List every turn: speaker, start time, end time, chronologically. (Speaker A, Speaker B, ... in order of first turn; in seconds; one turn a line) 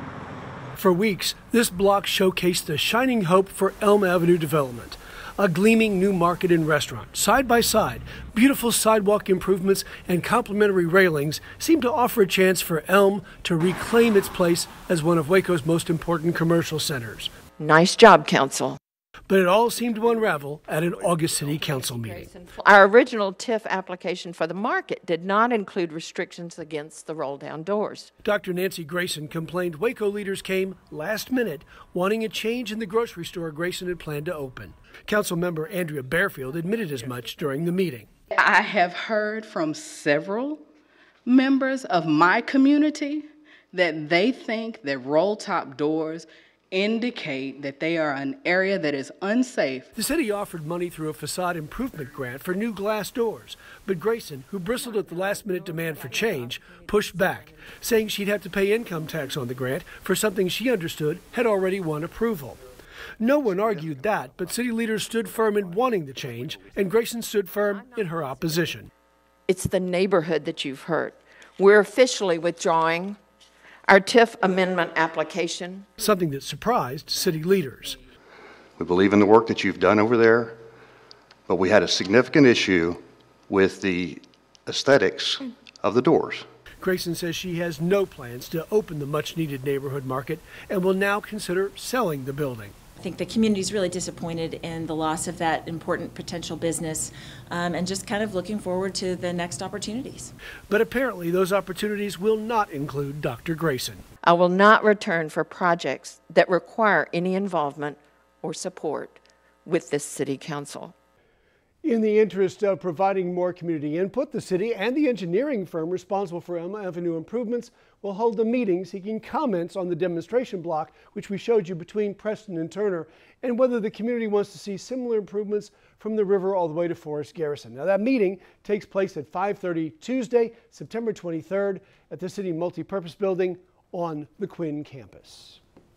Speaker A: 0.8-17.3
Speaker B: 17.6-18.8
Speaker A: 19.3-22.3
Speaker B: 21.4-28.1
Speaker A: 28.2-38.1
Speaker C: 38.3-40.6
Speaker C: 41.3-49.9
Speaker A: 49.9-62.6
Speaker A: 63.2-68.9
Speaker D: 63.5-64.8
Speaker D: 65.4-66.6
Speaker B: 67.7-68.6
Speaker B: 69.5-73.2
Speaker B: 73.9-75.9
Speaker A: 76.0-78.0
Speaker D: 78.8-80.6
Speaker D: 81.5-86.5
Speaker A: 86.8-92.7
Speaker E: 93.0-100.3
Speaker A: 100.7-104.0
Speaker B: 104.2-110.9
Speaker A: 111.8-135.6